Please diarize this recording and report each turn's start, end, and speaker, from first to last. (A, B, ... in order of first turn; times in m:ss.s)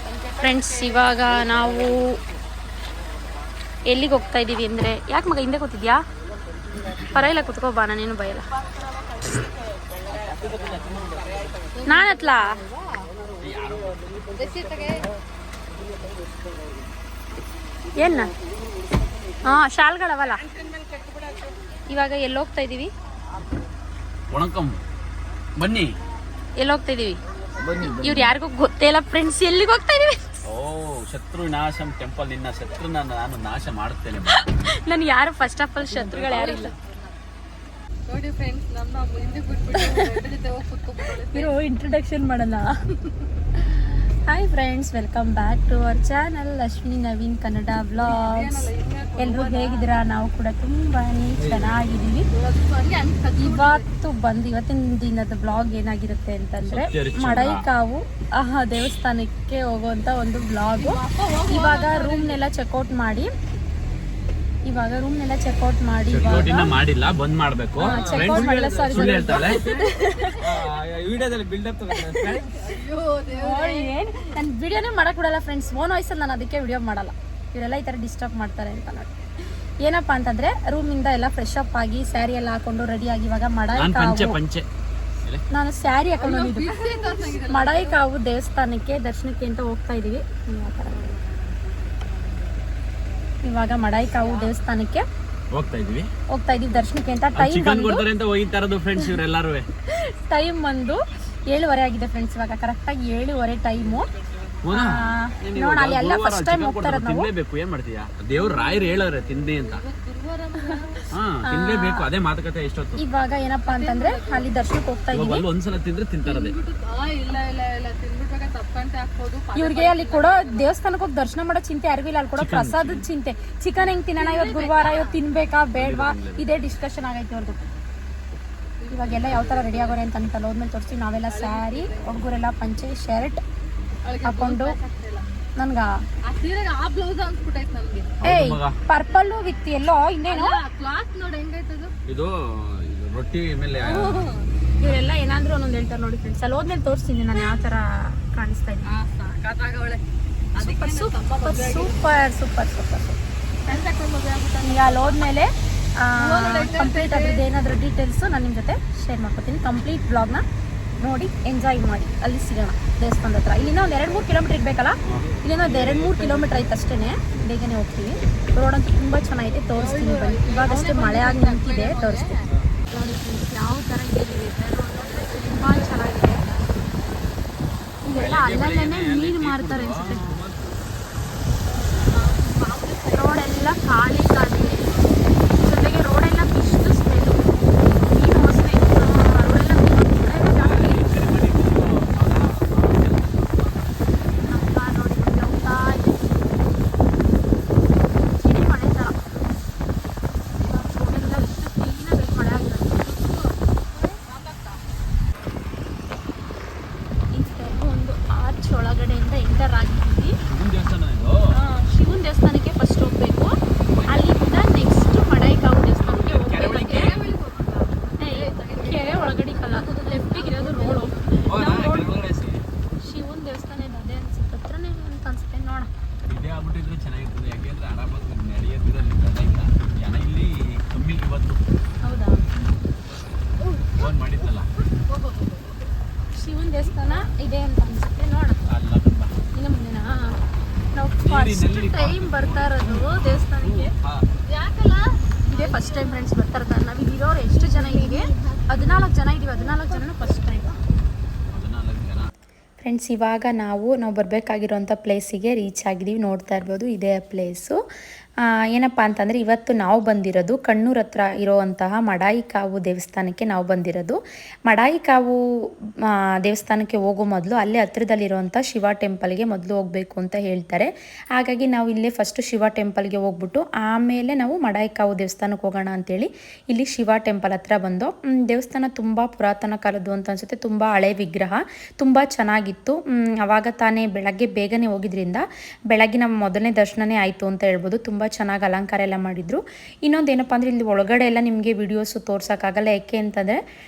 0:00.2-0:02.2 A
0:03.9-0:06.0 A
0:06.8-0:08.5 A
0:10.4-0:11.1 B
0:11.8-0:13.1 C
0:11.9-0:12.6 A
0:13.4-0:14.5 B
0:14.3-0:15.1 C
0:18.0-0:18.3 A
0:19.4-0:20.4 A
0:20.5-0:21.5 C
0:21.9-0:22.9 A
0:24.3-0:24.8 B
0:25.6-0:25.9 B
0:26.6-0:27.2 A
0:27.6-0:28.3 B
0:27.8-0:30.4 A
0:30.4-0:34.4 B
0:34.3-0:36.7 A
0:35.9-0:37.0 C
0:38.1-0:41.5 C
0:39.8-0:40.0 A
0:41.3-0:42.7 A
0:44.2-0:52.3 A
0:48.0-0:49.9 C
0:51.4-0:51.8 B
0:52.3-0:53.9 C
0:53.4-1:03.3 A
0:56.6-0:57.6 B
1:00.8-1:02.4 C
1:04.7-1:06.7 A
1:06.1-1:12.6 B
1:07.8-1:10.4 A
1:07.8-1:10.6 C
1:11.9-1:12.4 A
1:12.5-1:13.9 C
1:13.3-1:19.1 A
1:19.8-1:24.4 A
1:23.8-1:24.7 B
1:25.5-1:31.1 A
1:26.2-1:28.0 C
1:30.9-1:32.6 C
1:33.4-1:35.1 A
1:34.0-1:34.5 C
1:35.5-1:36.1 B
1:36.3-1:38.0 A
1:37.4-1:39.7 B
1:39.9-1:44.1 A
1:44.6-1:49.9 B
1:44.7-1:47.3 A
1:48.4-1:51.1 C
1:51.1-1:53.0 B
1:51.5-1:52.1 A
1:53.0-1:55.4 A
1:53.7-1:54.6 C
1:55.1-1:56.6 B
1:56.2-2:00.7 C
1:59.6-2:07.6 A
2:02.4-2:03.1 B
2:04.2-2:05.2 C
2:05.8-2:06.5 B
2:08.8-2:10.0 C
2:08.9-2:13.4 A
2:11.3-2:12.2 C
2:14.0-2:15.3 C
2:14.2-2:14.8 A
2:15.6-2:16.0 A
2:16.2-2:18.2 C
2:18.2-2:18.8 B
2:18.2-2:20.6 A
2:20.3-2:21.9 C
2:22.1-2:24.3 B
2:23.7-2:24.5 C
2:24.8-2:28.9 A
2:28.9-2:30.0 C
2:30.6-2:32.1 C
2:30.6-2:33.2 A
2:33.6-2:35.3 C
2:34.6-2:40.4 A
2:36.2-2:37.4 C
2:41.0-2:52.3 A
2:43.6-2:44.2 C
2:45.0-2:46.5 B
2:49.8-2:52.5 C
2:52.9-2:56.5 A
2:54.9-2:57.3 C
2:58.0-3:00.4 A
2:58.2-3:00.8 B
3:01.9-3:05.5 C
3:03.1-3:04.8 A
3:05.6-3:11.0 A
3:10.5-3:14.2 B
3:14.4-3:16.6 A
3:18.3-3:19.2 A
3:20.6-3:21.1 C
3:20.7-3:23.2 A
3:23.1-3:24.8 C
3:27.3-3:30.4 A
3:30.5-3:31.6 B
3:31.5-3:33.6 A
3:33.9-3:34.7 B
3:34.1-3:37.1 A
3:36.0-3:37.3 B
3:36.5-3:41.7 C
3:38.2-3:42.1 A
3:41.5-3:42.6 B
3:43.0-3:45.9 A
3:46.3-3:51.6 B
3:52.0-3:52.4 A
3:53.6-3:54.0 C
3:54.0-3:54.7 B
3:54.9-3:55.8 C
3:56.3-3:58.6 A
3:58.7-3:59.4 B
3:59.5-4:00.4 A
4:00.9-4:03.9 A
4:01.2-4:04.2 B
4:04.4-4:06.2 C
4:05.4-4:10.8 A
4:11.5-4:12.3 B
4:12.8-4:17.8 D
4:18.4-4:25.4 D
4:26.1-4:53.6 D